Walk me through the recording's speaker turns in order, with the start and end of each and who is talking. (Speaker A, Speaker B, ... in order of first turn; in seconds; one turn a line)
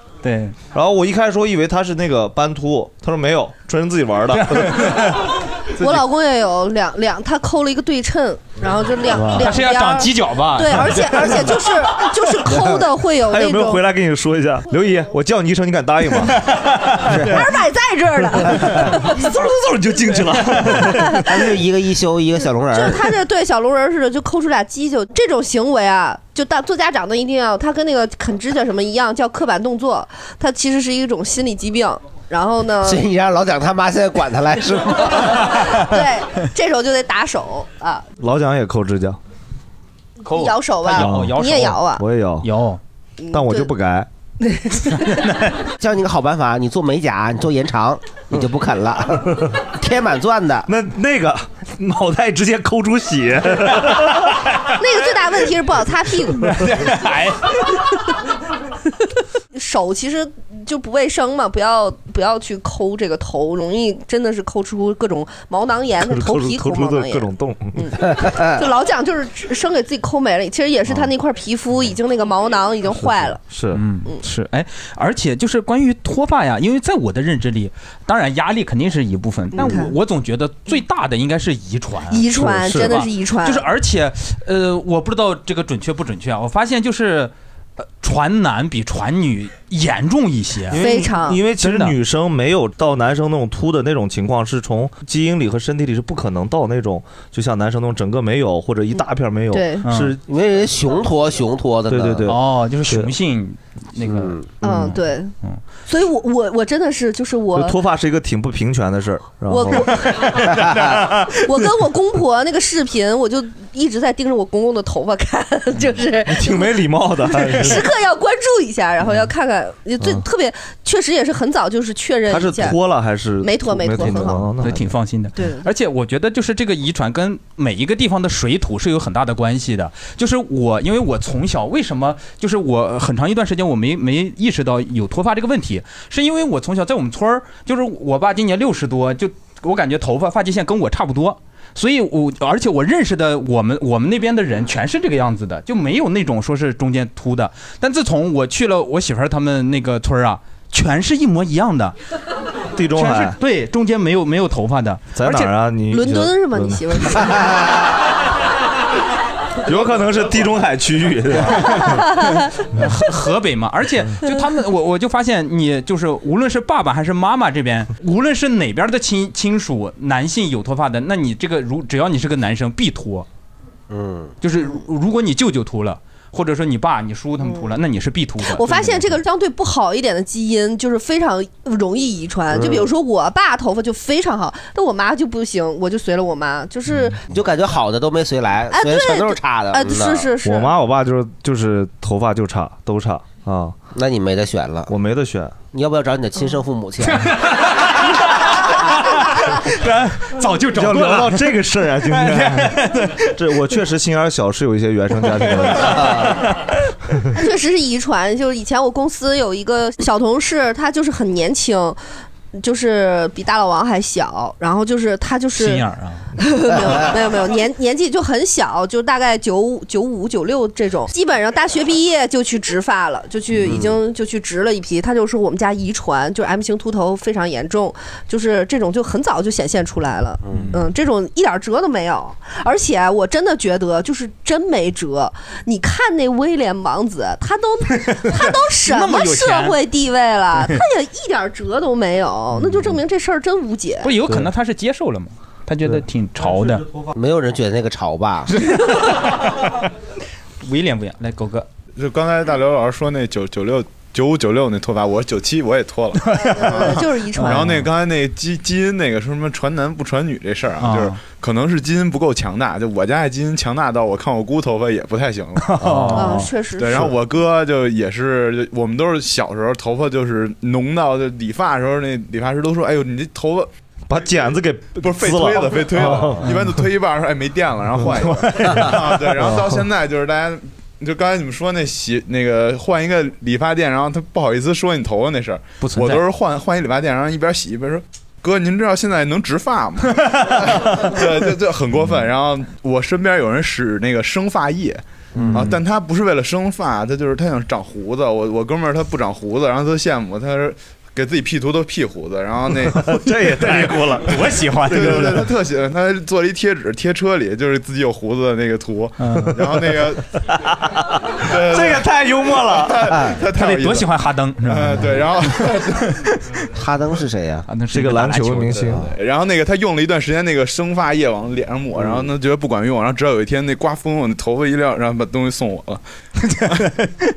Speaker A: 0.2-0.6
Speaker B: 0.7-5.0
Speaker A: 4.3-5.2
Speaker C: 5.8-13.8
Speaker B: 9.2-9.4
Speaker A: 9.3-11.3
Speaker B: 12.4-17.5
Speaker A: 17.1-17.4
Speaker C: 17.3-18.8
Speaker B: 18.3-21.3
Speaker D: 21.3-23.1
Speaker C: 22.7-33.0
Speaker D: 32.8-35.6
Speaker C: 35.7-38.1
Speaker B: 38.2-39.2
Speaker C: 40.2-42.0
Speaker A: 40.3-41.8
Speaker B: 40.9-42.5
Speaker A: 42.4-42.8
Speaker C: 43.2-43.7
Speaker B: 43.3-44.1
Speaker D: 45.8-50.7
Speaker B: 50.7-54.4
Speaker C: 54.8-56.5
Speaker A: 56.4-57.4
Speaker C: 59.5-68.0
Speaker B: 66.0-67.9
Speaker D: 68.0-68.6
Speaker C: 68.6-73.4
Speaker B: 72.9-73.8
Speaker A: 73.7-90.9
Speaker C: 79.5-79.9
Speaker C: 82.1-83.7
Speaker B: 82.3-83.0
Speaker C: 90.8-91.4
Speaker B: 90.8-100.2
Speaker A: 91.6-91.9
Speaker C: 99.5-99.8
Speaker A: 99.8-100.1
Speaker D: 100.3-102.3
Speaker B: 101.9-103.1
Speaker A: 102.3-105.6
Speaker D: 104.0-104.5
Speaker C: 104.6-105.3
Speaker C: 105.9-107.8
Speaker B: 107.5-109.9
Speaker C: 109.5-110.1
Speaker D: 110.5-110.9
Speaker C: 111.3-116.7
Speaker B: 116.3-117.8
Speaker C: 117.5-122.8
Speaker B: 120.0-120.2
Speaker B: 122.3-125.0
Speaker C: 123.4-124.5
Speaker A: 124.2-151.9
Speaker C: 125.3-125.7
Speaker B: 152.8-153.4
Speaker A: 153.0-155.5
Speaker B: 155.1-157.6
Speaker C: 155.9-157.8
Speaker B: 159.7-162.1
Speaker A: 161.7-162.0
Speaker A: 162.7-173.3
Speaker D: 173.9-174.4
Speaker A: 174.4-179.2
Speaker C: 177.4-177.7
Speaker C: 178.5-187.2
Speaker D: 182.5-182.9
Speaker D: 187.3-190.3
Speaker C: 188.7-190.7
Speaker B: 190.4-193.8
Speaker D: 193.9-194.9
Speaker B: 194.9-195.6
Speaker D: 195.7-197.3
Speaker A: 197.1-201.5
Speaker B: 200.7-206.5
Speaker A: 202.1-203.2
Speaker C: 207.3-212.0
Speaker C: 212.5-215.9
Speaker A: 215.6-216.3
Speaker C: 216.4-244.1
Speaker D: 216.7-217.2
Speaker D: 223.5-224.0
Speaker D: 230.4-230.7
Speaker A: 230.5-230.8
Speaker A: 238.1-239.8
Speaker A: 242.6-242.8
Speaker A: 244.0-246.8
Speaker D: 247.1-248.5
Speaker A: 248.5-249.6
Speaker A: 250.6-251.7
Speaker E: 252.0-265.8
Speaker A: 256.2-257.9
Speaker C: 256.4-257.7
Speaker A: 260.8-261.2
Speaker A: 265.6-266.5
Speaker B: 265.9-266.1
Speaker C: 266.1-267.1
Speaker E: 266.8-273.7
Speaker B: 274.1-276.5
Speaker E: 275.0-295.0
Speaker A: 276.0-276.7
Speaker A: 278.2-279.2
Speaker A: 285.8-286.2
Speaker D: 295.4-295.6
Speaker B: 295.4-295.8
Speaker E: 295.5-303.1
Speaker B: 302.9-305.3
Speaker A: 303.6-305.5
Speaker E: 304.9-310.2
Speaker A: 309.2-309.6
Speaker B: 310.6-313.3
Speaker E: 311.5-312.1
Speaker E: 312.7-314.1
Speaker A: 313.5-316.2
Speaker E: 314.7-316.1
Speaker D: 316.8-317.7
Speaker A: 317.7-318.9
Speaker B: 317.9-319.1
Speaker E: 318.9-326.0
Speaker A: 326.4-327.2